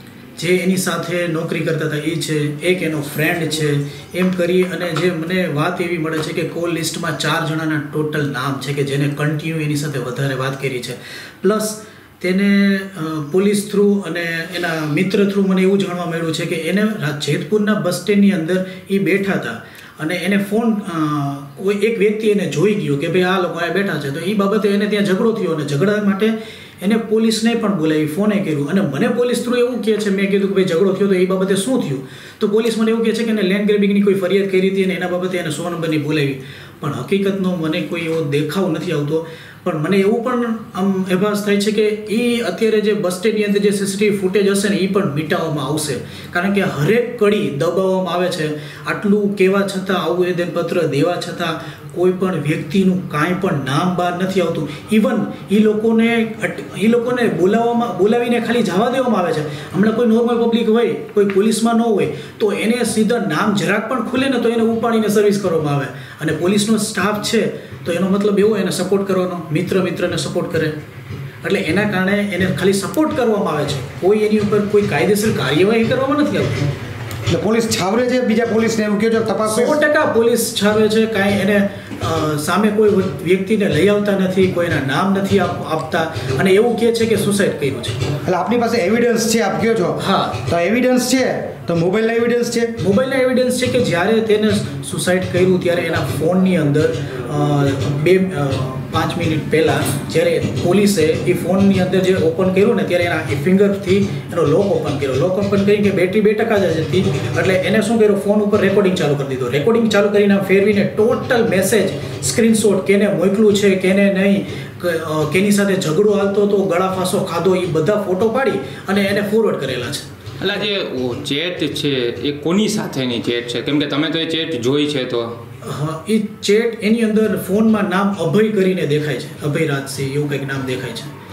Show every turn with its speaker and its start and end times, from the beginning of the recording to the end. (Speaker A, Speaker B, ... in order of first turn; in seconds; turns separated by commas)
Speaker A: 0.4-70.8, Speaker A: 71.4-76.7, Speaker B: 77.3-79.8, Speaker A: 79.5-88.1, Speaker B: 88.2-92.7, Speaker A: 90.0-90.4, Speaker A: 92.8-120.1, Speaker C: 120.4-125.3, Speaker A: 125.6-131.1